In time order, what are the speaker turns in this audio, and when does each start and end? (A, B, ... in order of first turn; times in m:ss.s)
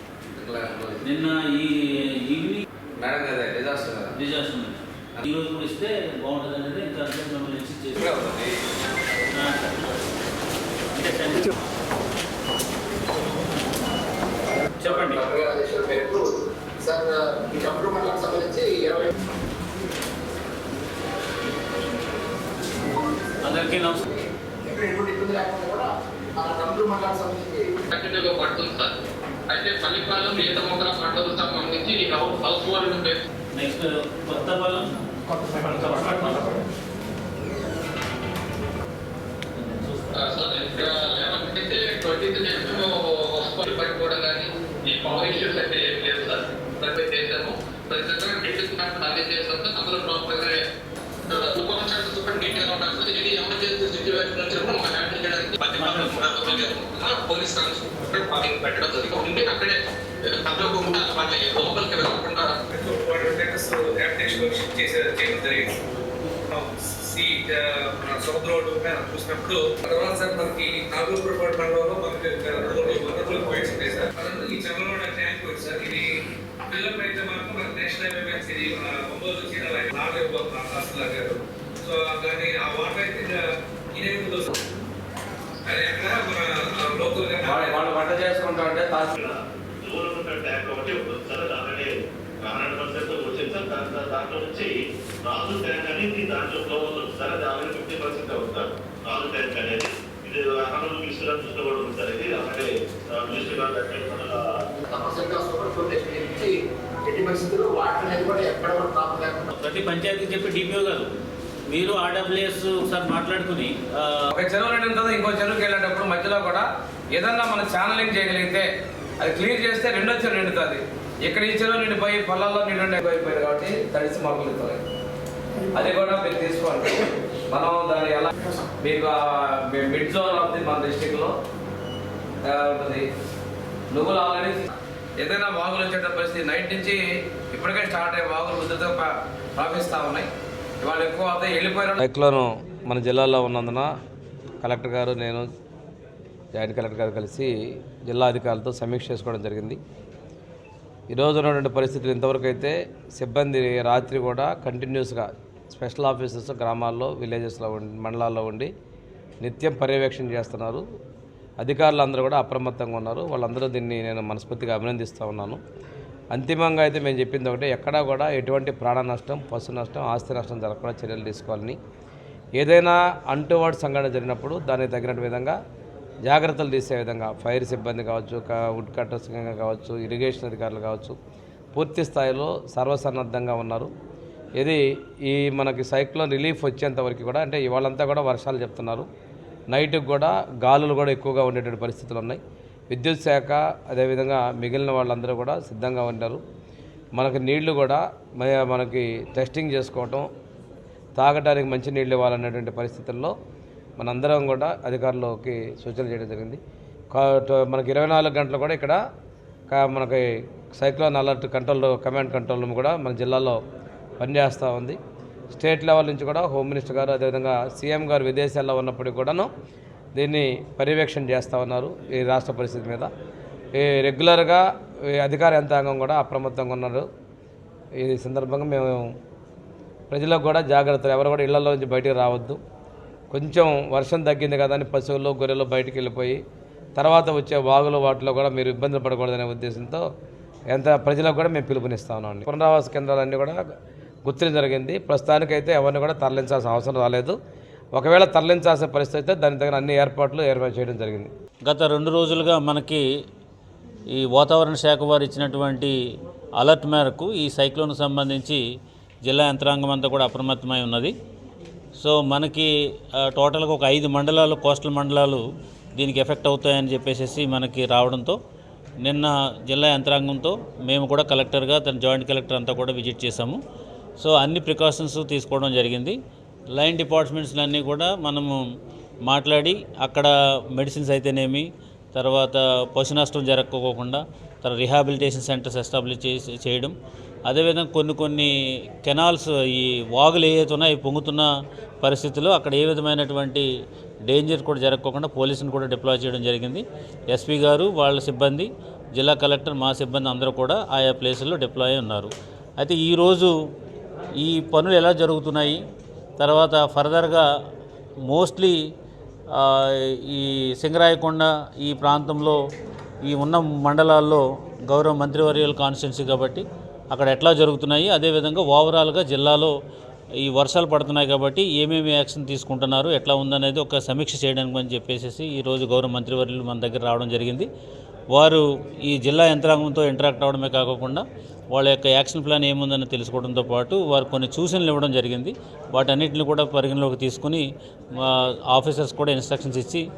0:00.3-0:01.0 A
0:01.0-0:02.6 B
0:03.0-0:04.2 A
0:04.1-0:08.2 B
0:08.0-0:08.6 A
0:09.3-0:09.8 B
0:10.9-0:11.5 B
0:14.8-0:15.2 B
0:14.8-0:19.1 C
0:23.4-0:24.1 B
0:24.6-0:27.6 C
0:27.9-0:28.9 D
0:29.5-0:33.2 D
0:33.5-0:34.9 B
0:35.5-0:36.6 B
0:39.5-0:40.3 B
0:40.2-0:50.6 D
0:51.3-1:02.6 D
0:55.8-0:56.7 B
1:02.7-1:05.8 E
1:06.5-1:23.4 E
1:23.9-1:24.6 E
1:25.6-1:28.0 E
1:27.4-1:29.1 A
1:29.1-1:31.9 F
1:32.4-1:34.7 F
1:35.3-1:44.4 F
1:44.9-1:46.5 C
1:47.0-1:49.5 C
1:49.5-1:51.1 B
1:51.7-1:54.3 B
1:54.3-1:58.7 A
1:59.2-2:04.8 A
2:05.7-2:11.3 A
2:12.4-2:13.0 A
2:13.9-2:14.6 A
2:15.2-2:17.0 A
2:17.5-2:20.3 A
2:20.8-2:23.9 A
2:24.6-2:25.4 A
2:26.5-2:27.5 A
2:28.0-2:29.8 A
2:31.1-2:38.7 A
2:39.4-2:40.8 A
2:41.6-2:45.6 A
2:46.3-2:51.8 A
2:52.6-2:55.6 A
2:56.2-3:01.1 A
3:01.7-3:03.9 A
3:04.6-3:09.0 A
3:09.7-3:16.4 A
3:17.1-3:20.2 A
3:21.2-3:23.3 A
3:24.0-3:26.6 A
3:27.1-3:29.0 A
3:29.7-3:33.6 A
3:34.2-3:35.0 A
3:35.5-3:39.5 A
3:40.2-3:43.1 A
3:43.8-3:44.6 A
3:45.2-3:47.0 A
3:48.0-3:49.1 A
3:50.1-3:52.6 A
3:53.3-3:56.4 A
3:57.0-4:00.0 A
4:00.7-4:03.6 A
4:04.2-4:07.3 A
4:07.9-4:11.3 A
4:11.6-4:13.0 B
4:14.1-4:15.9 B
4:16.6-4:18.6 B
4:19.2-4:21.1 B
4:22.0-4:25.4 B
4:26.0-4:28.4 B
4:29.0-4:33.6 B
4:34.2-4:36.2 B
4:36.7-4:38.6 B
4:39.2-4:46.9 B
4:47.5-4:48.5 B
4:49.0-4:51.5 B
4:52.0-4:53.7 B
4:54.3-5:03.5 B
5:04.4-5:05.8 B
5:06.4-5:07.4 B
5:08.3-5:08.8 B
5:09.5-5:12.6 B
5:13.2-5:19.7 B
5:20.4-5:27.7 B
5:28.3-5:37.6 B
5:38.2-5:40.0 B